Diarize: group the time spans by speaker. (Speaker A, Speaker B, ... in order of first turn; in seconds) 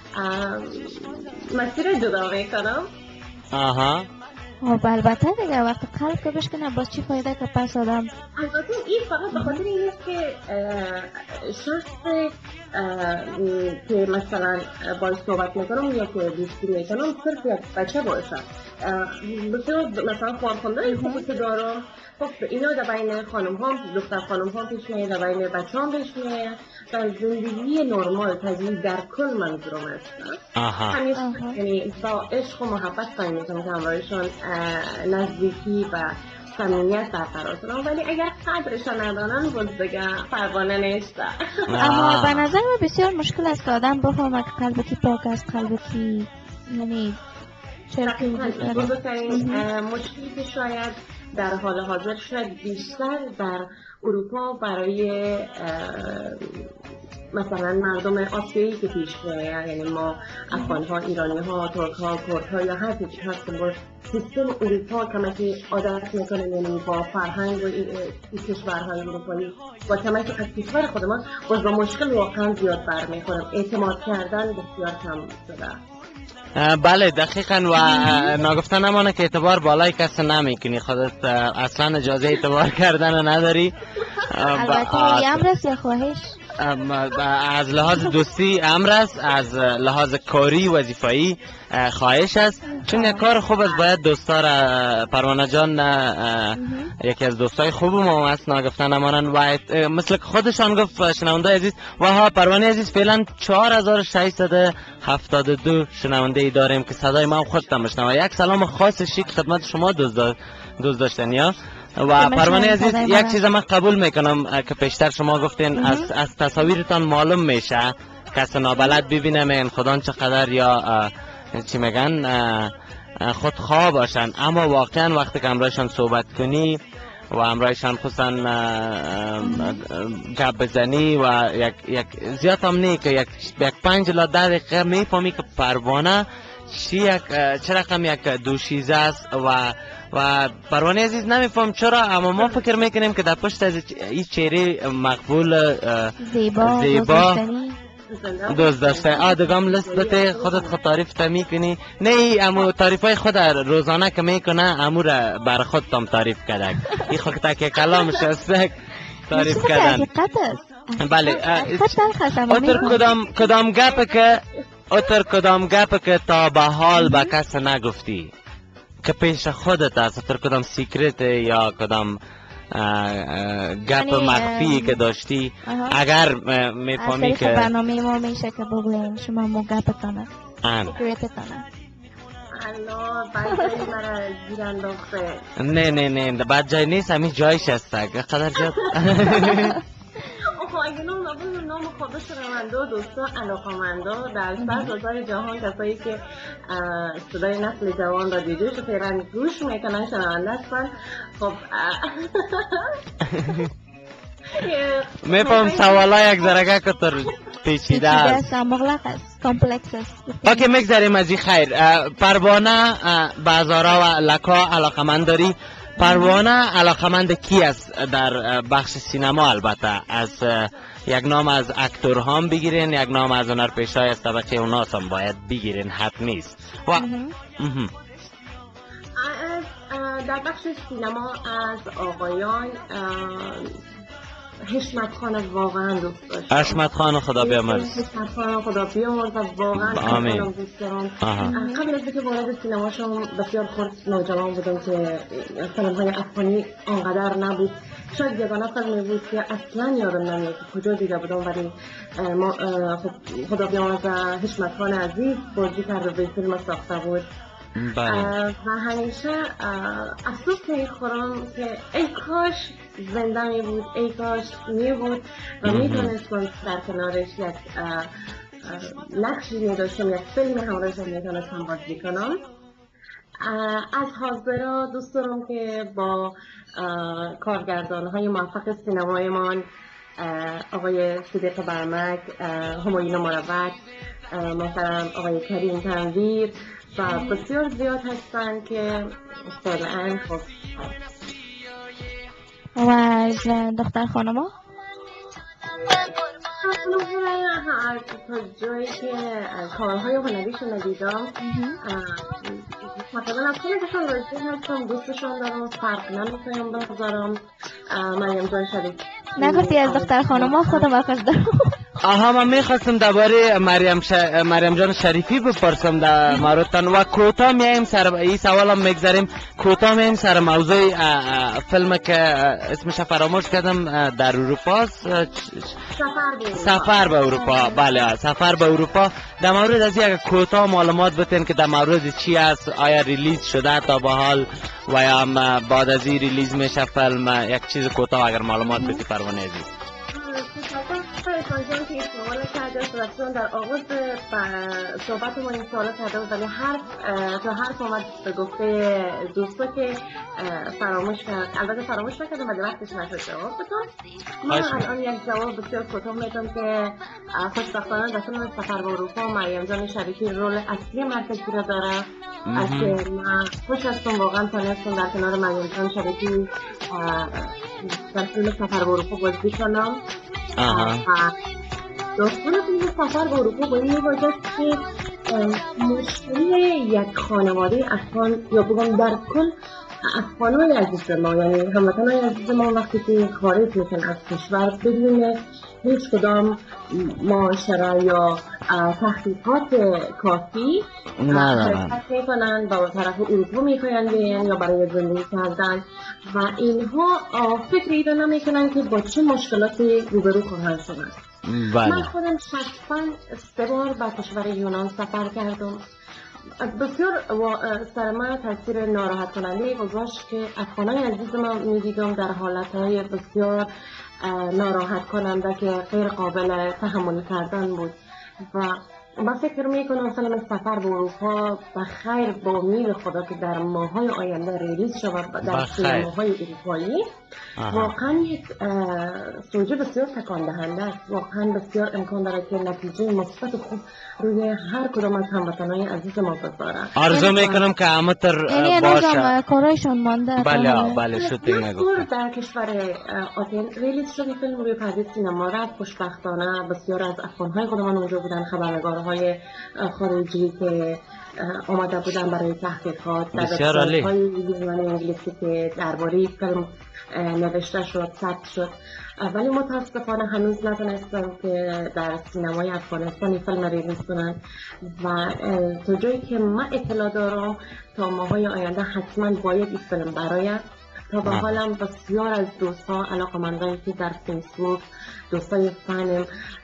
Speaker A: 0.1-2.9, 8.3-30.4, 30.9-41.7, 48.0-56.7, 57.3-75.8, 142.4-142.6, 148.1-150.8, 157.8-158.2, 162.7-164.6, 182.5-185.4, 188.6-189.7, 190.3-203.0, 204.5-206.6, 229.2-233.7, 234.7-236.8, 237.4-257.2, 258.1-268.1, 268.6-272.4, 273.4-279.6, 280.2-283.8, 284.3-290.5, 295.8-310.9, 326.0-327.0, 340.1-353.9, 354.4-370.0, 370.7-371.3, 372.1-379.5, 380.0-401.2, 401.8-405.8, 406.6-413.7, 414.2-427.1, 427.7-437.6, 441.1-476.2
Speaker B: 3.5-4.1, 30.6-31.0, 41.7-42.4, 76.5-83.7, 84.2-85.4, 86.6-122.7, 123.2-126.8, 127.3-147.4, 148.5-158.7, 159.3-160.1, 161.0-168.3, 169.0-172.2, 172.7-177.7, 180.6-181.0, 185.6-189.8, 203.3-203.6, 205.3-208.4, 210.4-227.9, 236.5-238.0, 239.8-240.5, 241.2-241.5, 257.8-258.3, 265.6-266.1, 312.0-325.8, 326.5-339.7, 354.5-354.9, 362.5-362.9, 370.6-371.0, 391.2-392.0, 401.5-402.1, 425.4-426.1, 427.6-427.9, 437.0-439.3, 440.4-442.1, 453.3-454.1
Speaker C: 4.6-8.1, 9.3-9.6, 20.8-21.2, 31.1-31.6, 41.8-47.2, 47.9-49.6, 60.5-60.8, 77.8-78.3, 84.5-86.3, 92.8-93.2, 96.6-96.9, 112.2-113.4, 115.8-116.1, 129.4-129.8, 146.2-147.8, 159.3-163.1, 167.0-167.3, 173.9-175.0, 175.7-176.0, 177.0-180.3, 180.8-181.6, 194.6-194.9, 207.9-210.6, 216.0-216.4, 226.9-227.3, 241.4-241.8, 287.1-287.4, 292.8-294.5, 301.4-301.8, 309.4-311.8, 327.3-328.0, 338.7-339.0, 438.5-441.0